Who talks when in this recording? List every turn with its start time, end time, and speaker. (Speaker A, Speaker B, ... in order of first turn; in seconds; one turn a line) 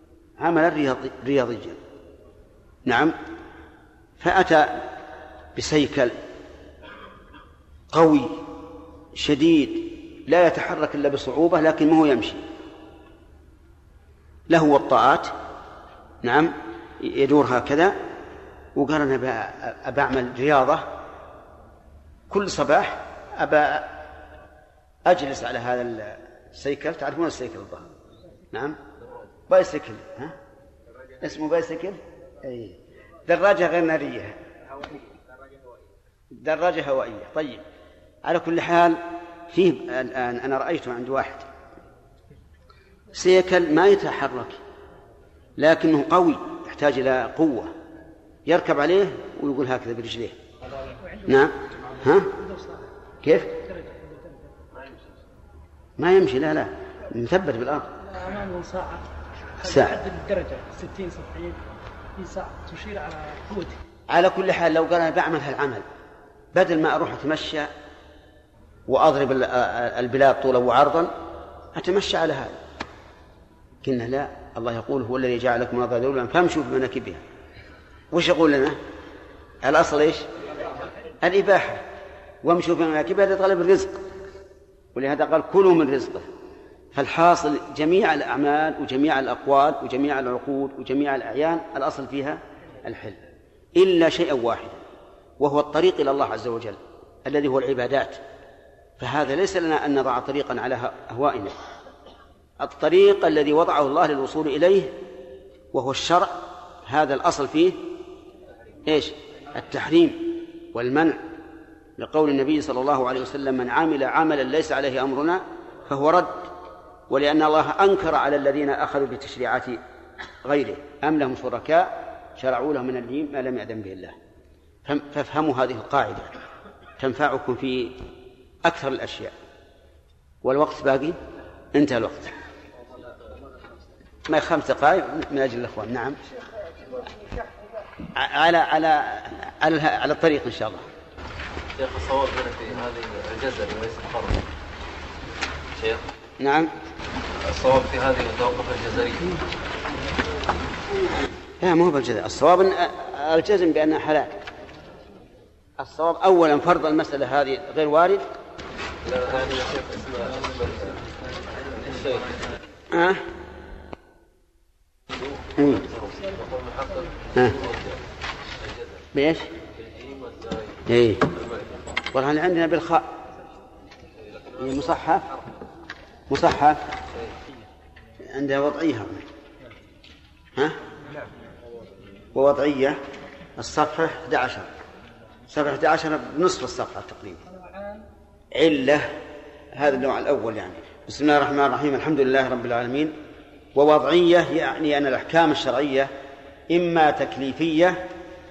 Speaker A: 0.4-1.8
Speaker A: 2.9-3.1
Speaker A: 4.2-4.8
Speaker A: 5.6-6.2
Speaker A: 7.9-8.4
Speaker A: 9.2-12.4
Speaker A: 14.5-15.3
Speaker A: 16.2-17.9
Speaker A: 18.8-20.9
Speaker A: 22.3-23.9
Speaker A: 25.1-27.9
Speaker A: 28.5-28.8
Speaker A: 29.5-30.3
Speaker A: 31.2-32.8
Speaker A: 33.3-34.4
Speaker A: 36.4-37.6
Speaker A: 38.2-41.5
Speaker A: 43.1-44.6
Speaker A: 45.6-47.7
Speaker A: 48.5-50.4
Speaker B: 51.0-51.5
Speaker A: 51.3-52.3
Speaker B: 52.3-52.9
Speaker A: 53.2-53.6
Speaker B: 53.7-54.4
Speaker A: 56.0-57.9
Speaker B: 58.1-59.0
Speaker A: 59.6-60.0
Speaker B: 59.6-61.6
Speaker B: 62.2-63.8
Speaker A: 64.1-65.8
Speaker A: 66.5-67.7
Speaker A: 68.9-71.1
Speaker A: 71.8-72.6
Speaker A: 73.8-77.2
Speaker A: 78.1-78.8
Speaker A: 79.6-80.3
Speaker A: 81.2-81.8
Speaker A: 82.4-84.0
Speaker A: 85.0-86.3
Speaker A: 87.0-93.2
Speaker A: 93.8-94.8
Speaker A: 95.4-98.2
Speaker A: 99.0-101.6
Speaker A: 102.6-105.0
Speaker A: 105.7-107.8
Speaker A: 108.9-111.2
Speaker A: 112.0-116.5
Speaker A: 117.1-119.8
Speaker A: 120.4-124.1
Speaker A: 124.9-126.3
Speaker A: 127.0-128.0
Speaker A: 128.7-129.3
Speaker A: 130.4-131.2
Speaker A: 131.7-132.3
Speaker A: 134.3-136.2
Speaker A: 138.2-140.8
Speaker C: 141.7-144.5
Speaker C: 145.7-146.1
Speaker A: 146.4-146.7
Speaker C: 147.4-149.3
Speaker A: 151.6-154.3
Speaker A: 155.8-158.2
Speaker C: 159.0-162.4
Speaker A: 162.9-163.2
Speaker C: 165.6-168.0
Speaker C: 168.6-169.0
Speaker A: 169.1-169.5
Speaker C: 169.6-171.8
Speaker A: 170.9-171.2
Speaker A: 172.1-173.1
Speaker C: 174.2-174.9
Speaker A: 174.6-175.3
Speaker A: 176.3-176.8
Speaker A: 178.3-179.2
Speaker A: 182.3-183.0
Speaker A: 183.6-184.7
Speaker A: 185.5-187.4
Speaker B: 187.5-188.0
Speaker A: 188.6-189.1
Speaker A: 189.7-193.1
Speaker A: 193.8-196.1
Speaker A: 196.7-198.0